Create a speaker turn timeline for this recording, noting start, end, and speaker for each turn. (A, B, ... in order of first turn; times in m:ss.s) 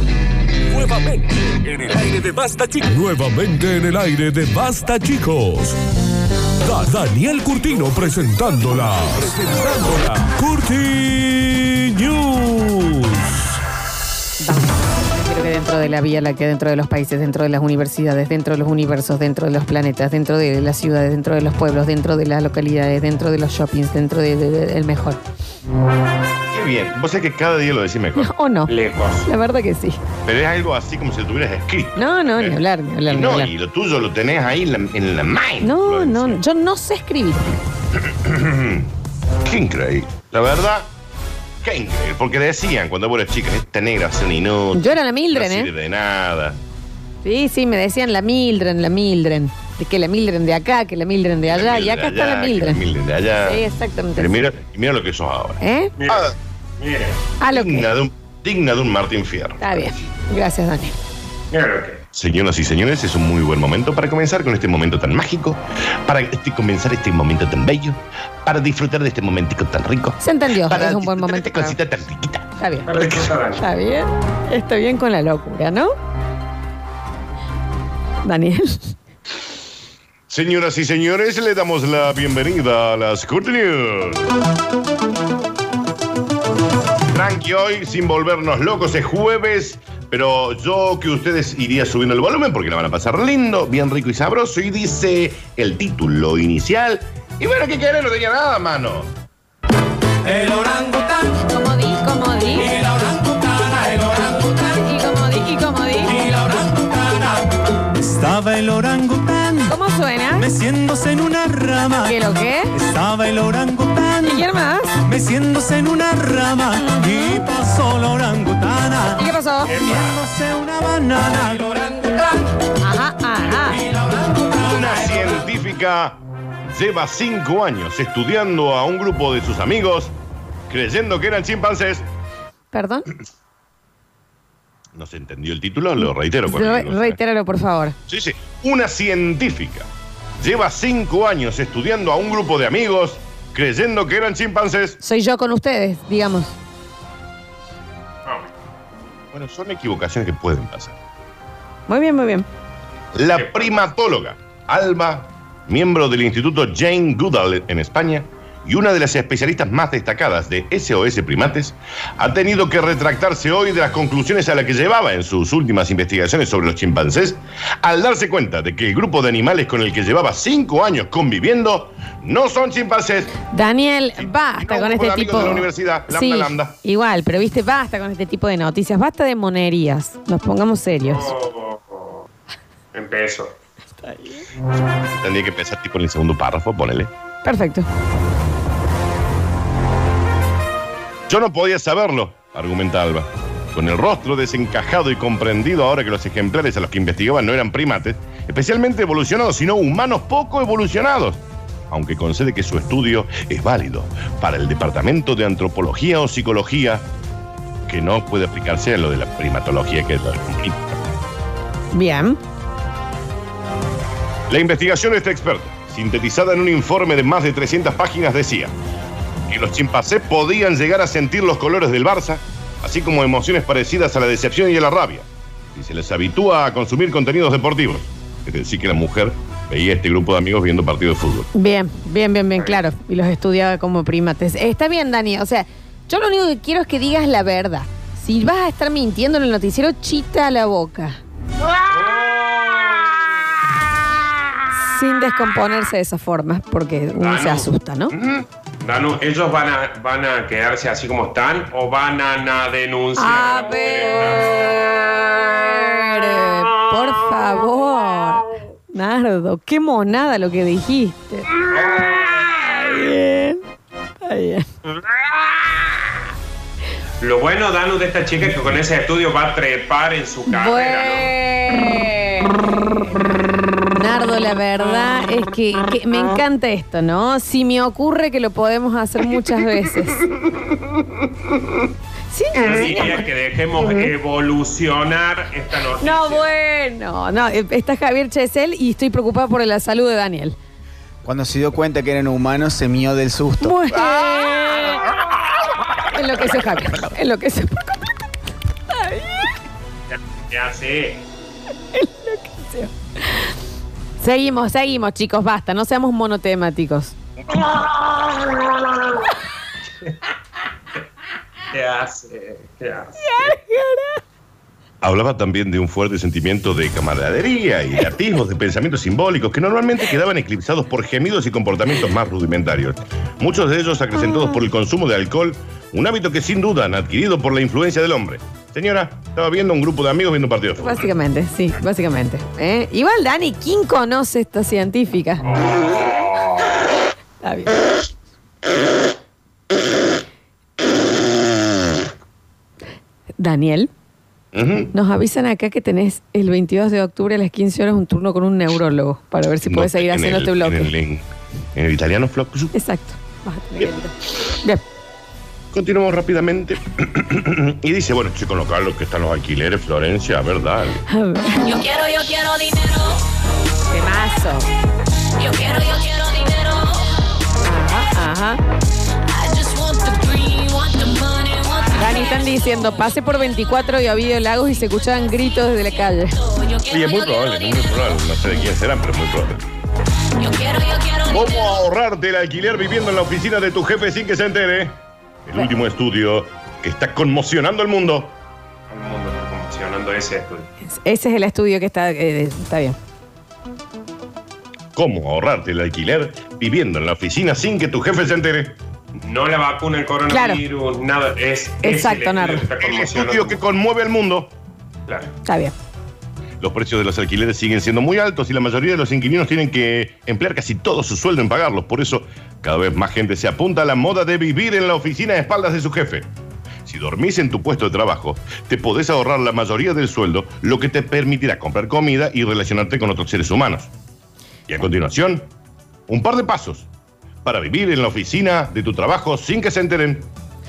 0:00.7-0:05.8 A
0:06.6-0:13.4 A
0:14.4-0:25.2 B
0:26.5-0:28.3 C
0:28.2-0:28.7 B
0:28.7-0:29.3 D
0:29.2-0:30.0 B
0:30.2-0:36.4 C
0:32.0-0:33.5 B
0:35.6-0:37.5 B
0:38.0-0:38.9 C
0:39.4-0:40.9 C
0:41.6-0:46.6 C
0:44.7-0:45.7 B
0:47.2-0:52.8 B
0:51.5-0:53.6 C
0:53.4-0:54.5 B
0:54.2-0:56.3 C
0:55.6-0:55.9 B
0:56.0-0:57.2 D
0:57.4-0:57.9 B
0:57.5-0:59.9 C
0:59.6-1:01.0 B
1:01.5-1:02.0 D
1:02.1-1:13.3 C
1:10.2-1:11.8 B
1:12.6-1:12.9 B
1:12.9-1:13.6 D
1:13.6-1:15.9 B
1:18.2-1:19.0 B
1:20.3-1:24.3 C
1:27.1-1:39.1 C
1:40.2-1:41.3 E
1:41.4-1:43.1 B
1:43.1-1:44.3 E
1:44.3-1:46.4 B
1:46.3-1:49.8 E
1:49.7-1:50.5 B
1:50.4-1:54.5 E
1:52.0-1:52.8 B
1:54.2-1:55.0 B
1:55.0-2:02.1 E
1:56.8-1:57.5 B
1:59.2-1:59.8 B
1:59.7-2:00.1 D
2:02.8-2:03.9 B
2:04.5-2:10.2 C
2:10.7-2:12.0 C
2:12.7-2:13.1 B
2:15.0-2:17.2 C
2:16.0-2:18.0 B
2:18.1-2:19.9 C
2:20.4-2:25.0 C
2:25.0-2:26.6 B
2:29.3-2:31.0 C
2:31.9-2:32.5 B
2:33.1-2:53.3 C
2:33.3-2:33.7 D
2:53.5-3:01.3 B
2:54.2-2:56.8 C
3:01.0-3:02.2 D
3:02.9-3:03.5 D
3:04.0-3:04.4 B
3:05.0-3:07.1 C
3:07.4-3:07.9 B
3:11.3-3:27.1 C
3:27.9-3:30.9 C
3:31.9-3:32.4 B
3:34.5-3:38.7 C
3:39.5-3:51.5 C
3:51.5-4:01.2 B
4:01.8-4:03.3 D
4:04.8-4:08.1 B
4:07.2-4:14.7 D
4:13.2-4:21.6 B
4:21.7-4:22.4 D
4:22.1-4:23.6 B
4:24.2-4:24.7 B
4:24.9-4:25.6 D
4:27.2-4:31.3 D
4:30.5-4:32.6 B
4:33.9-4:40.3 B
4:42.3-4:43.3 B
4:42.6-4:46.5 D
4:46.0-4:50.6 B
4:51.2-4:53.8 F
4:53.6-4:55.0 B
4:56.1-4:58.1 B
4:58.9-4:59.5 B
5:00.1-5:01.2 D
5:01.9-5:02.9 B
5:04.2-5:07.2 B
5:11.7-5:13.5 D
5:13.2-5:14.2 B
5:15.0-5:31.1 C
5:24.3-5:24.6 B
5:30.8-5:35.5 B
5:35.6-5:36.7 D
5:37.4-5:37.8 B
5:43.4-5:43.9 B
5:44.5-5:44.9 C
5:44.9-5:50.9 B
5:49.7-5:52.7 C
5:52.7-5:54.8 B
5:55.7-6:01.0 C
6:01.1-6:02.2 B
6:02.1-6:03.1 G
6:03.9-6:04.7 B
6:05.5-6:06.9 G
6:07.6-6:08.6 B
6:09.4-6:11.7 G
6:11.8-6:16.7 B
6:16.9-6:19.7 C
6:20.4-6:21.2 G
6:21.3-6:28.4 C
6:28.9-6:30.7 D
6:30.8-6:33.0 B
6:35.0-6:38.8 C
6:39.2-6:43.6 D
6:40.3-6:40.6 B
6:41.8-6:42.7 B
6:42.7-6:44.5 C
6:45.4-6:45.7 B
6:46.6-6:56.3 C
6:56.8-7:03.9 C
7:04.7-7:05.5 C
7:06.1-7:06.9 C
7:07.4-7:10.3 C